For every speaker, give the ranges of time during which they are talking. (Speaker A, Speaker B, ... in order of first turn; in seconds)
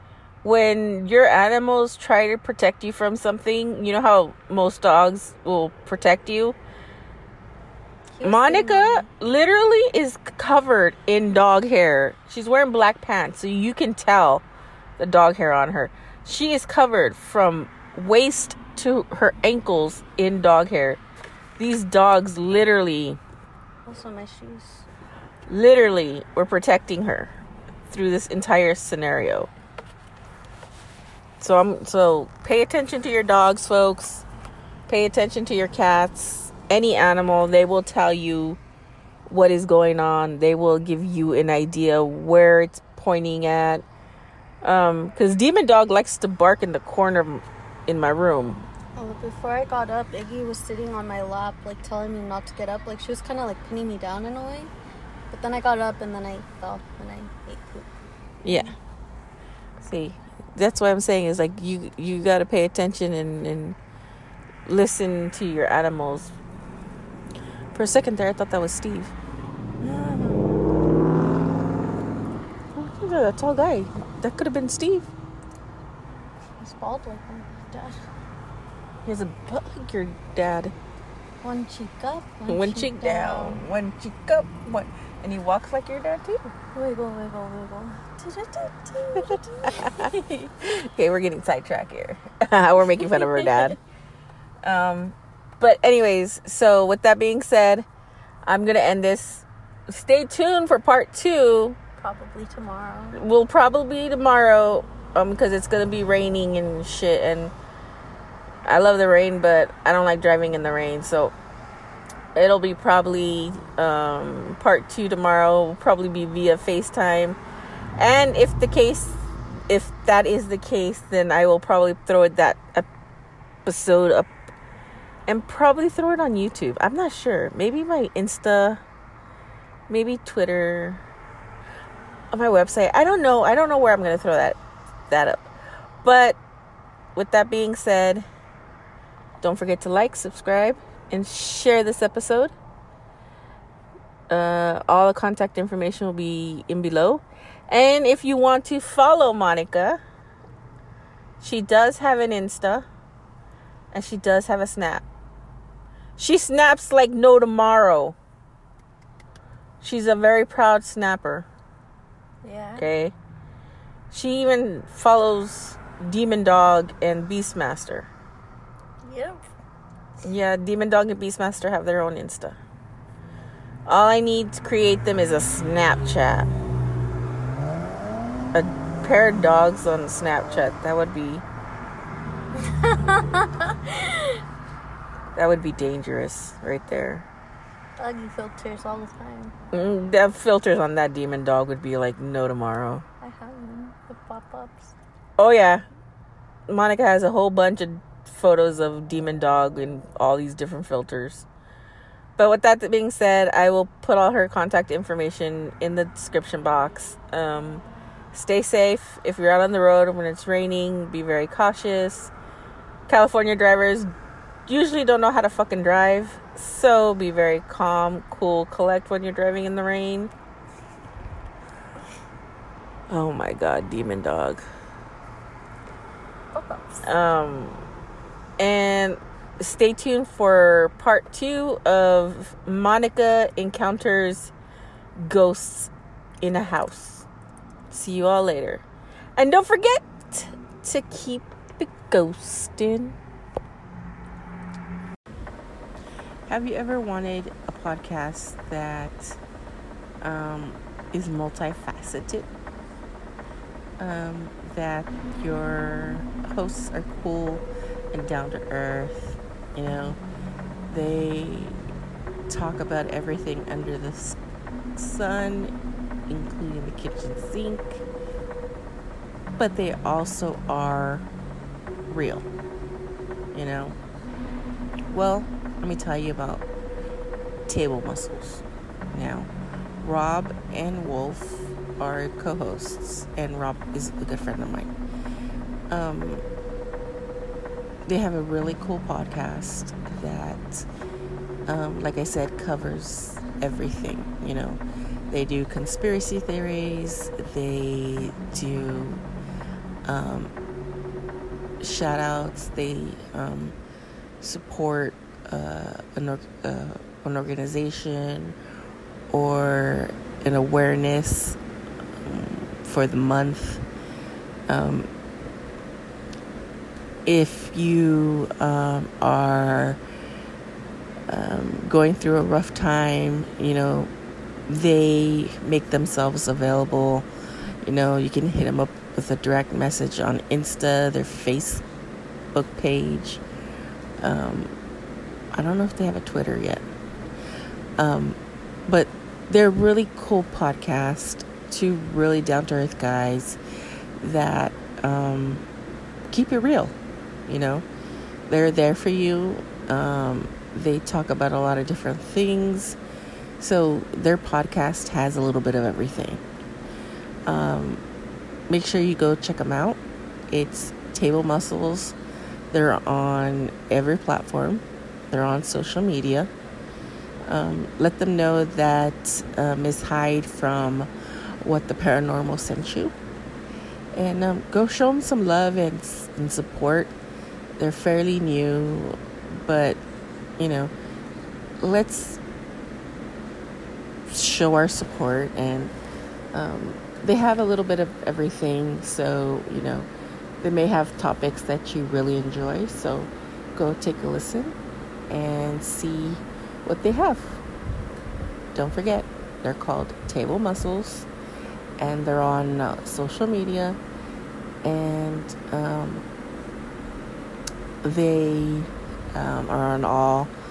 Speaker A: 0.4-6.6, 8.2-14.4, 15.0-21.0, 21.6-23.2, 25.5-27.3, 27.9-29.5, 31.4-34.2, 34.9-38.6, 39.3-43.8, 44.6-48.7, 58.4-58.7, 59.8-63.8, 64.7-66.3, 67.7-69.1, 72.7-75.1, 79.0-80.7, 82.5-86.5, 89.3-93.8, 94.6-97.8, 98.5-101.8, 103.1-107.5, 108.7-111.3, 112.3-117.4, 118.0-122.9, 123.6-124.3, 125.3-128.8, 129.9-131.0, 132.3-135.5, 136.0-136.4, 137.1-138.2, 139.4-142.5, 144.3-150.0, 151.4-152.9, 153.9-155.0, 156.2-158.2, 159.8-161.5, 162.8-163.1, 164.1-168.1, 170.2-172.6, 173.8-176.5, 178.5-181.4, 185.3-187.3, 189.7-193.0, 195.4-195.8, 196.7-201.4, 202.4-212.3, 213.1-214.1, 214.7-220.3, 223.1-224.6, 227.0-227.8, 228.6-234.5, 235.2-237.3, 237.9-238.8, 239.4-243.2, 246.5-249.4, 250.2-252.5, 254.0-260.2, 260.9-261.8, 262.5-264.4, 264.9-265.7, 266.3-268.0, 269.6-271.3, 272.1-272.5, 273.5-274.0, 275.1-276.6, 277.7-279.5, 280.0-284.9, 285.9-286.4, 288.1-290.9, 291.7-299.2, 300.0-300.5, 301.8-303.7, 304.4-308.6, 309.3-311.6, 312.2-313.8, 314.7-315.1, 317.2-320.0, 321.3-324.1, 324.7-327.3, 327.8-331.8, 332.5-333.4, 334.2-334.7, 335.5-336.9, 338.0-343.6, 344.2-345.6, 346.3-346.9, 347.5-347.8, 348.5-353.0, 353.6-356.4, 357.5-358.0, 358.7-362.1, 362.7-366.5, 367.4-371.1, 371.6-373.1, 374.1-377.1, 377.8-380.0, 380.6-380.9, 381.8-382.4, 384.3-385.9, 386.5-390.1, 390.6-394.8, 395.3-397.6, 398.7-401.3, 402.0-404.0, 404.8-406.2, 408.0-410.5
Speaker B: 8.1-9.1, 23.9-24.9, 49.0-54.7, 55.3-57.9, 69.8-70.5, 76.6-78.0, 81.4-83.7, 86.7-90.5, 93.0-93.7, 102.0-103.2, 162.4-162.9, 169.0-169.4, 182.5-184.4, 188.0-189.5, 193.2-194.9, 226.5-227.1